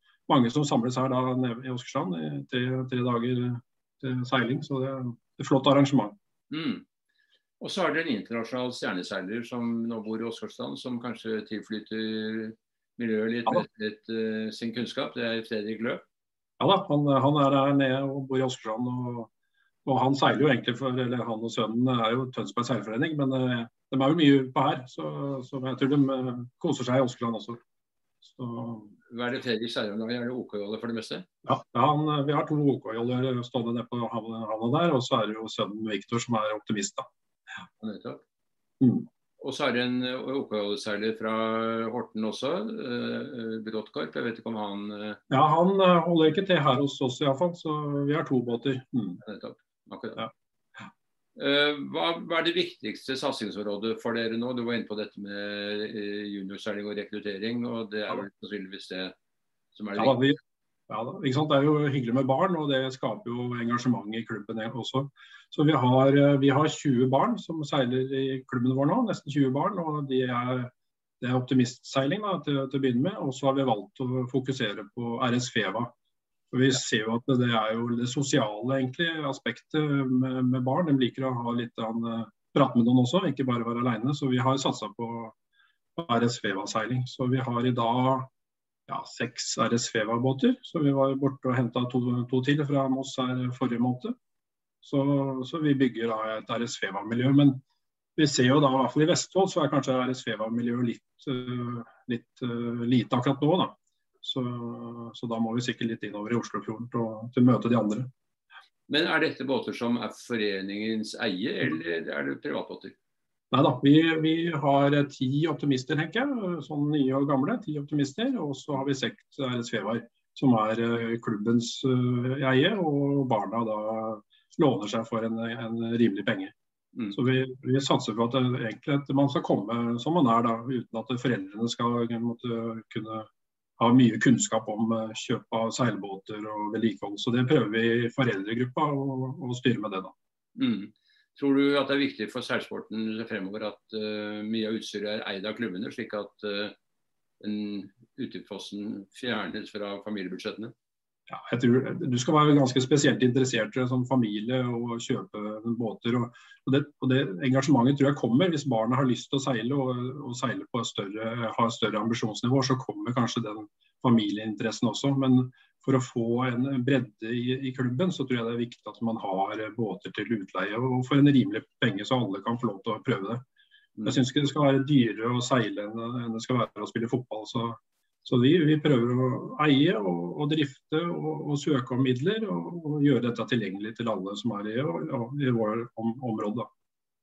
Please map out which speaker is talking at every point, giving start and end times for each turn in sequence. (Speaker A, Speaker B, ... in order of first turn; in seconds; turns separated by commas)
Speaker A: 0.3-6.2, Speaker B: 6.5-6.8, Speaker B: 7.6-16.0, Speaker A: 16.6-19.3, Speaker A: 19.8-27.6, Speaker A: 28.2-28.9, Speaker B: 29.1-31.2, Speaker A: 31.5-37.0, Speaker B: 37.8-38.2, Speaker A: 38.8-39.1, Speaker B: 39.4-45.2, Speaker A: 45.3-49.2, Speaker B: 49.2-50.2, Speaker B: 51.4-59.1, Speaker B: 59.7-60.2, Speaker A: 60.0-60.4, Speaker A: 60.9-75.9, Speaker A: 76.5-85.3, Speaker A: 86.0-88.3, Speaker A: 88.9-94.1, Speaker A: 94.8-97.6, Speaker A: 98.2-108.1, Speaker B: 108.9-112.9, Speaker A: 113.5-126.5, Speaker A: 127.1-133.3, Speaker A: 133.8-140.1, Speaker B: 140.6-146.7, Speaker B: 147.4-150.7, Speaker A: 151.3-173.4, Speaker A: 174.0-186.7